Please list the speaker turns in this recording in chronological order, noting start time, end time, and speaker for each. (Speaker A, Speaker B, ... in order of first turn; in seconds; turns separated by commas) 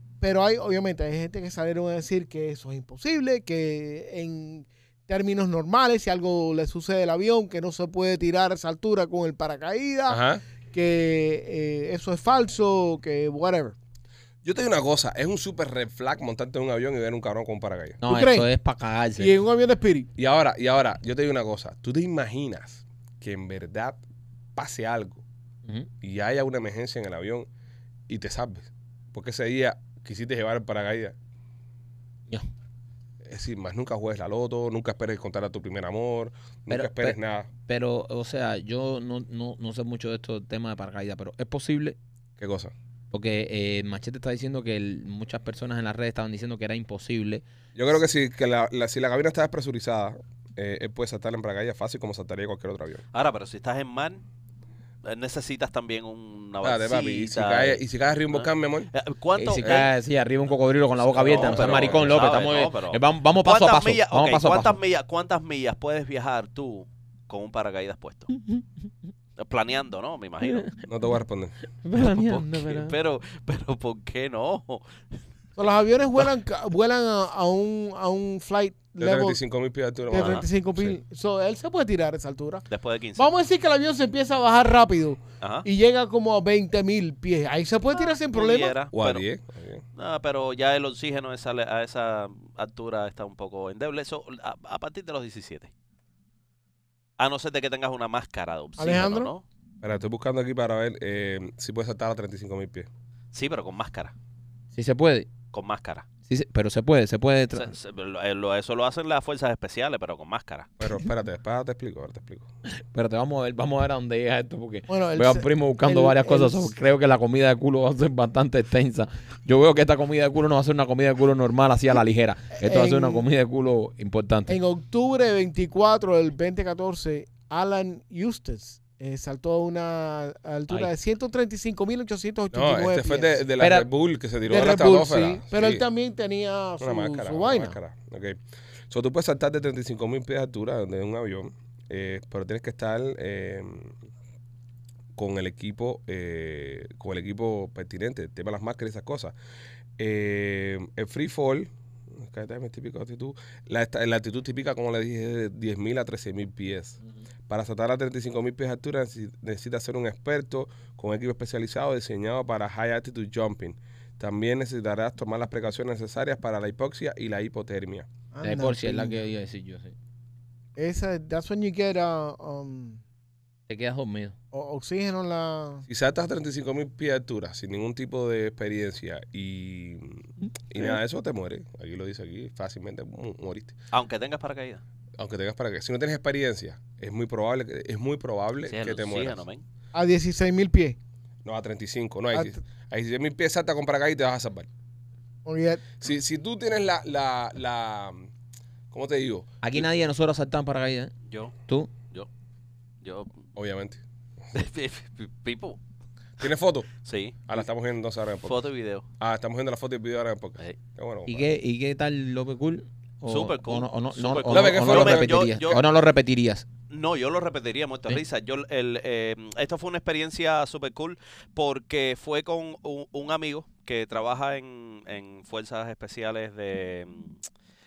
Speaker A: 0.2-13.8, Speaker B: 10.1-10.4, Speaker B: 14.4-18.0, Speaker C: 18.0-19.3, Speaker A: 18.0-18.5, Speaker A: 19.2-20.1, Speaker B: 20.2-24.0, Speaker B: 24.6-25.2, Speaker B: 26.0-27.5, Speaker B: 28.1-31.1, Speaker B: 33.2-37.5, Speaker C: 36.7-42.0, Speaker B: 42.4-42.7, Speaker C: 43.1-47.4, Speaker B: 47.8-53.0, Speaker D: 53.1-54.2, Speaker D: 55.0-59.9, Speaker B: 56.6-58.9, Speaker C: 59.4-64.8, Speaker D: 61.1-68.3, Speaker B: 61.2-62.3, Speaker C: 68.3-68.7, Speaker D: 69.4-70.7, Speaker C: 70.4-70.8, Speaker B: 70.9-71.5, Speaker C: 71.8-72.9, Speaker D: 72.0-74.9, Speaker A: 75.6-79.4, Speaker B: 79.0-81.0, Speaker A: 80.1-82.6, Speaker D: 80.1-80.5, Speaker D: 82.7-83.3, Speaker A: 83.2-88.8, Speaker D: 85.4-85.7, Speaker D: 88.3-89.2, Speaker B: 88.9-89.8, Speaker D: 90.0-95.7, Speaker D: 97.2-99.4, Speaker A: 98.8-99.3, Speaker B: 99.8-102.9, Speaker D: 103.3-104.1, Speaker C: 104.7-105.3, Speaker D: 105.5-106.1, Speaker C: 106.3-107.7, Speaker D: 107.5-110.7, Speaker B: 110.8-112.5, Speaker C: 112.7-124.6, Speaker A: 114.9-116.7, Speaker A: 122.6-123.2, Speaker A: 124.5-133.4, Speaker B: 132.5-135.8, Speaker C: 133.6-133.9, Speaker A: 134.5-137.8, Speaker B: 136.8-138.4, Speaker B: 138.9-144.0, Speaker B: 145.2-149.3, Speaker B: 150.0-168.1, Speaker A: 168.3-169.2, Speaker C: 168.4-169.9, Speaker A: 170.8-173.0, Speaker C: 173.7-174.3, Speaker A: 174.5-175.8, Speaker B: 175.9-183.8, Speaker D: 183.9-184.8, Speaker B: 185.2-189.4, Speaker D: 188.7-189.6, Speaker A: 189.9-191.0, Speaker B: 191.4-194.7, Speaker A: 195.4-195.8, Speaker B: 196.0-198.3, Speaker B: 198.9-199.8, Speaker C: 199.6-201.1, Speaker D: 201.3-201.5, Speaker D: 203.0-203.4, Speaker B: 203.6-204.0, Speaker D: 204.5-205.8, Speaker B: 206.4-206.9, Speaker D: 207.0-207.5, Speaker B: 207.5-208.6, Speaker D: 208.4-209.1, Speaker B: 209.2-211.5, Speaker C: 211.3-216.7, Speaker D: 213.3-215.8, Speaker B: 214.5-215.5, Speaker D: 216.9-227.4